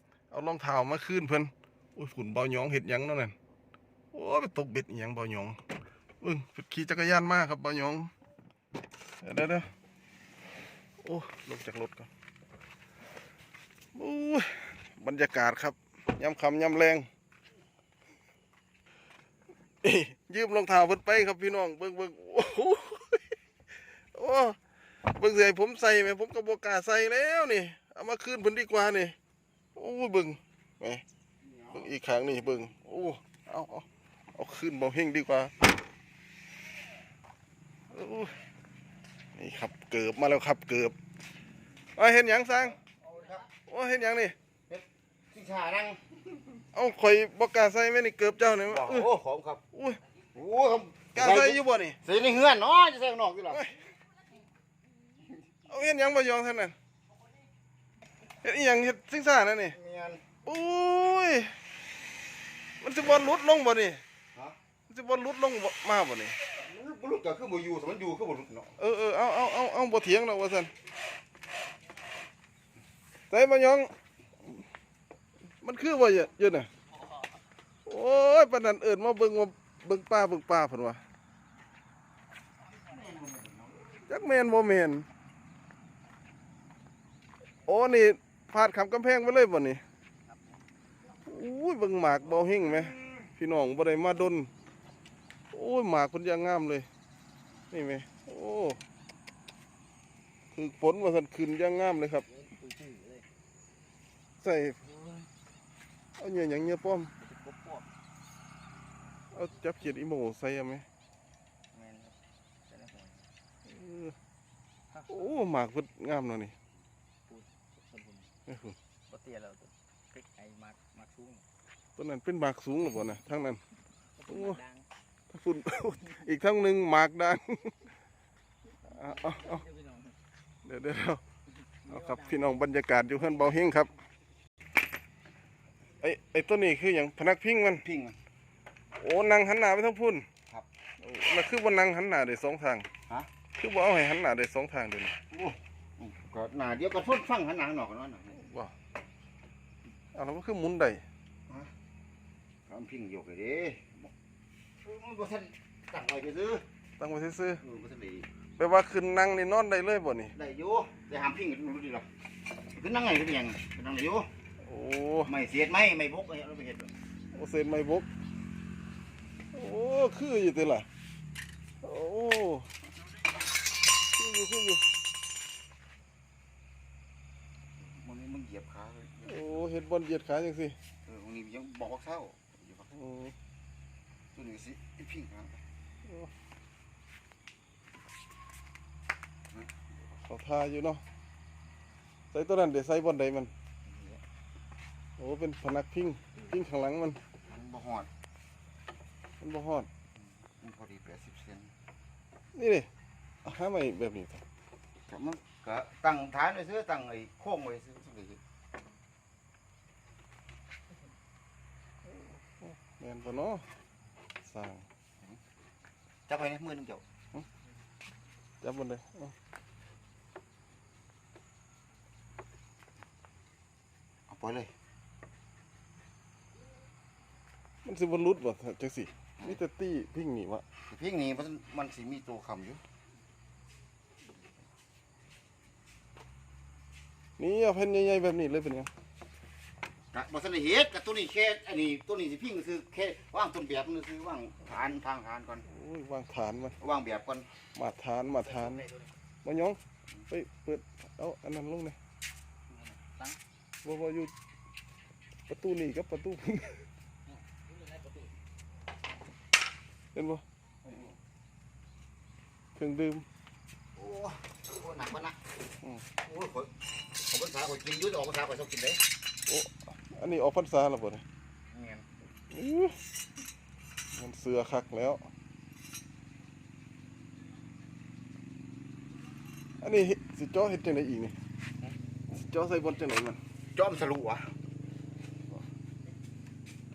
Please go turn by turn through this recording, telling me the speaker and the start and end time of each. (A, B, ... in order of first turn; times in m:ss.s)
0:00.3-0:03.4 A
0:04.1-0:05.6 A
0:06.2-0:08.1 A
0:09.2-0:09.7 A
0:11.0-0:12.1 A
0:14.0-0:17.1 A
0:19.8-0:23.2 A
0:24.1-0:29.2 A
0:29.8-0:31.0 A
0:31.4-0:31.8 B
0:31.7-0:35.5 A
0:37.9-0:38.3 A
0:39.4-0:41.0 A
0:42.0-0:42.8 A
0:42.8-0:43.5 B
0:43.7-0:44.4 A
0:44.7-0:46.0 B
0:46.7-0:49.1 A
0:48.7-0:49.6 B
0:49.7-0:50.0 A
0:50.3-0:53.6 B
0:51.1-0:52.0 A
0:53.5-0:53.8 A
0:55.7-0:56.7 A
0:58.4-0:59.8 A
0:59.7-1:00.2 B
1:00.4-1:01.5 A
1:02.8-1:04.0 A
1:04.9-1:06.4 A
1:06.5-1:08.7 B
1:08.8-1:10.7 A
1:13.3-1:13.9 A
1:15.6-1:16.7 A
1:17.9-1:21.0 A
1:22.7-1:24.0 B
1:24.1-1:25.1 A
1:27.7-1:29.8 A
1:30.3-1:30.6 C
1:31.2-1:34.5 A
1:35.5-1:36.9 A
1:37.7-1:38.8 A
1:40.5-1:42.3 A
1:42.3-1:43.2 C
1:44.4-1:44.8 A
1:46.2-1:47.1 A
1:47.2-1:47.9 C
1:49.3-1:50.8 A
1:51.8-1:52.1 B
1:52.7-1:53.3 C
1:53.7-1:54.2 A
1:54.9-1:55.4 C
1:55.1-1:56.5 A
1:57.3-1:58.3 C
1:58.5-1:58.8 A
1:59.1-2:01.5 C
2:02.0-2:03.6 A
2:04.2-2:04.9 C
2:04.3-2:04.6 A
2:05.3-2:07.7 A
2:08.9-2:09.6 A
2:09.0-2:10.2 C
2:10.6-2:11.2 A
2:11.8-2:12.7 C
2:11.9-2:13.9 A
2:13.2-2:13.6 C
2:16.0-2:17.8 A
2:17.8-2:18.2 B
2:19.0-2:20.3 A
2:21.0-2:22.9 A
2:23.6-2:25.2 A
2:25.3-2:28.4 B
2:28.3-2:28.8 A
2:30.1-2:31.0 A
2:32.7-2:34.1 B
2:34.8-2:36.6 B
2:37.0-2:37.6 A
2:37.6-2:38.3 B
2:38.6-2:40.3 A
2:40.3-2:42.1 B
2:42.6-2:44.3 B
2:44.6-2:45.3 A
2:45.3-2:46.9 B
2:47.3-2:48.1 A
2:49.5-2:50.9 A
2:51.8-2:52.7 A
2:54.2-2:54.8 A
2:57.8-2:59.7 B
2:59.3-3:00.8 A
3:01.1-3:03.0 B
3:03.0-3:03.3 A
3:04.4-3:05.6 B
3:06.1-3:06.3 A
3:10.2-3:11.0 A
3:12.3-3:13.5 A
3:13.8-3:14.2 B
3:15.2-3:17.2 A
3:17.5-3:18.1 B
3:19.4-3:19.9 A
3:20.2-3:21.7 B
3:22.6-3:22.9 A
3:23.4-3:24.4 A
3:25.1-3:28.4 B
3:32.6-3:33.6 A
3:34.4-3:34.8 A
3:36.3-3:37.0 B
3:38.6-3:39.3 A
3:44.3-3:44.7 B
3:47.8-3:50.6 A
3:50.9-3:52.8 B
3:57.4-3:58.9 A
4:00.1-4:05.6 B
4:05.7-4:06.8 A
4:06.8-4:07.5 B
4:07.8-4:08.9 A
4:08.4-4:09.1 C
4:09.4-4:12.0 A
4:12.7-4:13.4 C
4:13.8-4:14.3 A
4:15.5-4:16.8 A
4:17.5-4:18.3 C
4:20.2-4:20.4 A
4:22.8-4:23.3 A
4:24.0-4:25.4 B
4:26.2-4:29.0 B
4:29.5-4:31.2 A
4:31.7-4:32.1 B
4:32.5-4:33.0 A
4:34.1-4:35.3 A
4:39.8-4:41.4 A
4:42.3-4:43.4 A
4:43.7-4:44.5 B